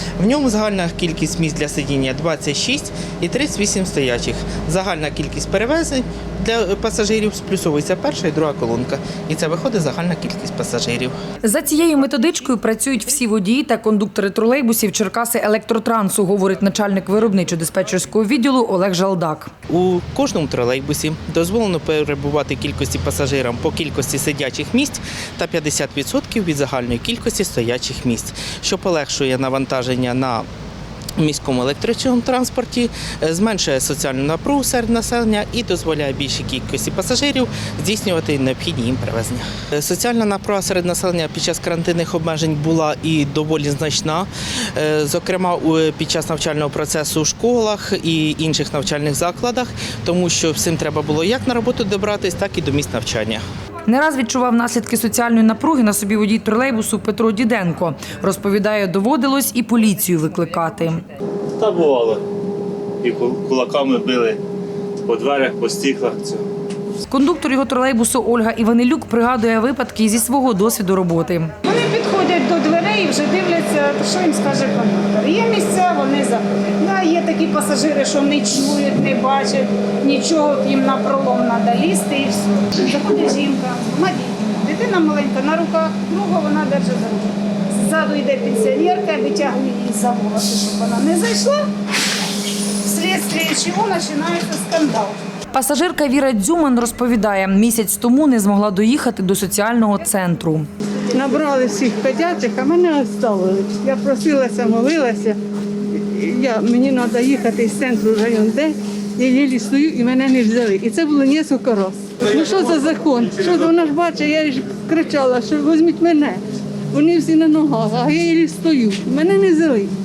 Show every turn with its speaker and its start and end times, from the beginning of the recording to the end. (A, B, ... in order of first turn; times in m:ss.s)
0:00.2-0:11.1 A
0:11.4-0:19.5 B
0:19.7-0:30.5 A
0:31.2-0:53.4 A
0:53.9-1:01.0 B
1:01.6-1:02.2 C
1:03.0-1:04.4 C
1:05.1-1:06.4 C
1:07.1-1:11.5 B
1:11.6-1:31.6 D
1:32.8-1:35.2 D
1:35.5-1:40.7 B
1:41.1-1:45.4 E
1:45.9-1:56.4 E
1:56.9-1:59.9 E